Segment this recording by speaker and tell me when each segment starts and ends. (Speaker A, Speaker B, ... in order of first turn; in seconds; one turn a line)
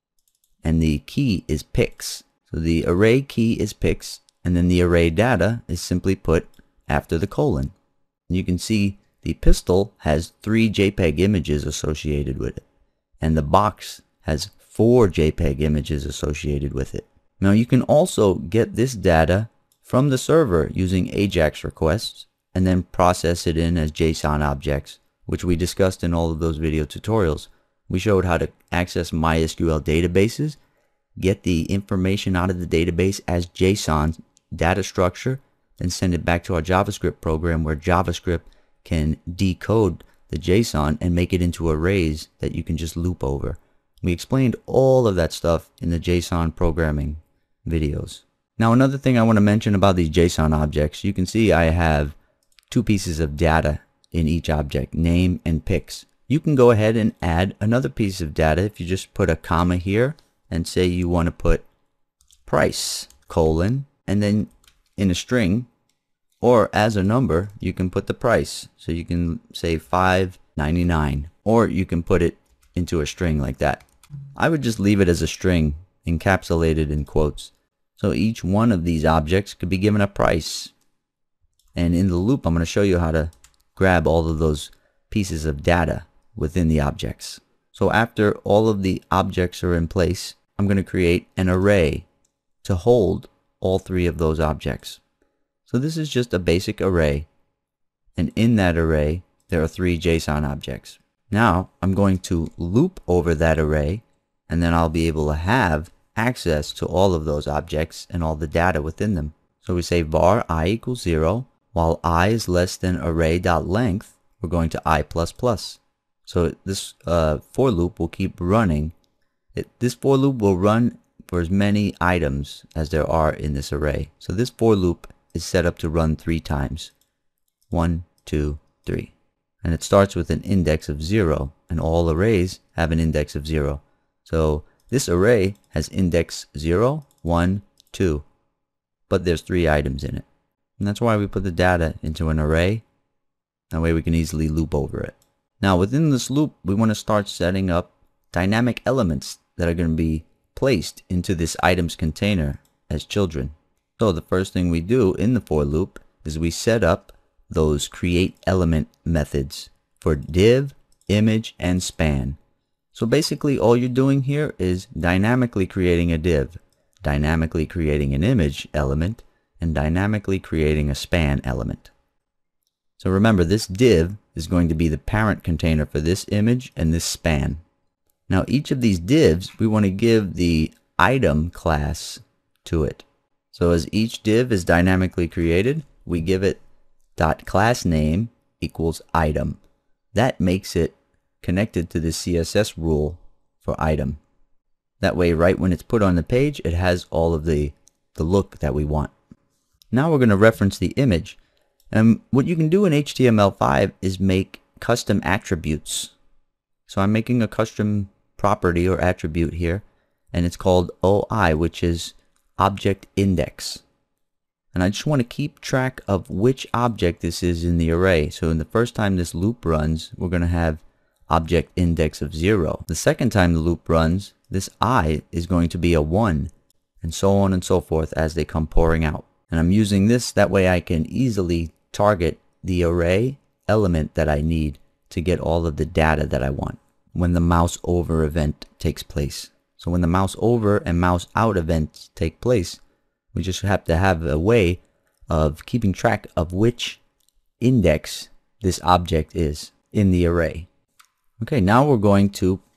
Speaker A: 0.6-7.7
Speaker A: 8.3-12.7
Speaker A: 13.2-30.6
Speaker A: 31.2-52.2
Speaker A: 52.7-61.7
Speaker A: 62.4-65.7
Speaker A: 66.4-73.8
Speaker A: 74.4-80.7
Speaker A: 81.8-92.1
Speaker A: 92.6-95.0
Speaker A: 95.7-97.3
Speaker A: 98.2-118.9
Speaker A: 119.5-126.9
Speaker A: 127.7-138.2
Speaker A: 139.1-140.2
Speaker A: 140.8-142.8
Speaker A: 143.7-162.4
Speaker A: 162.9-171.9
Speaker A: 173.0-177.6
Speaker A: 178.3-186.6
Speaker A: 187.2-189.6
Speaker A: 190.1-194.2
Speaker A: 195.0-199.1
Speaker A: 199.9-201.4
Speaker A: 201.9-206.2
Speaker A: 206.9-213.8
Speaker A: 214.7-242.8
Speaker A: 243.3-247.0
Speaker A: 247.6-250.7
Speaker A: 251.4-252.6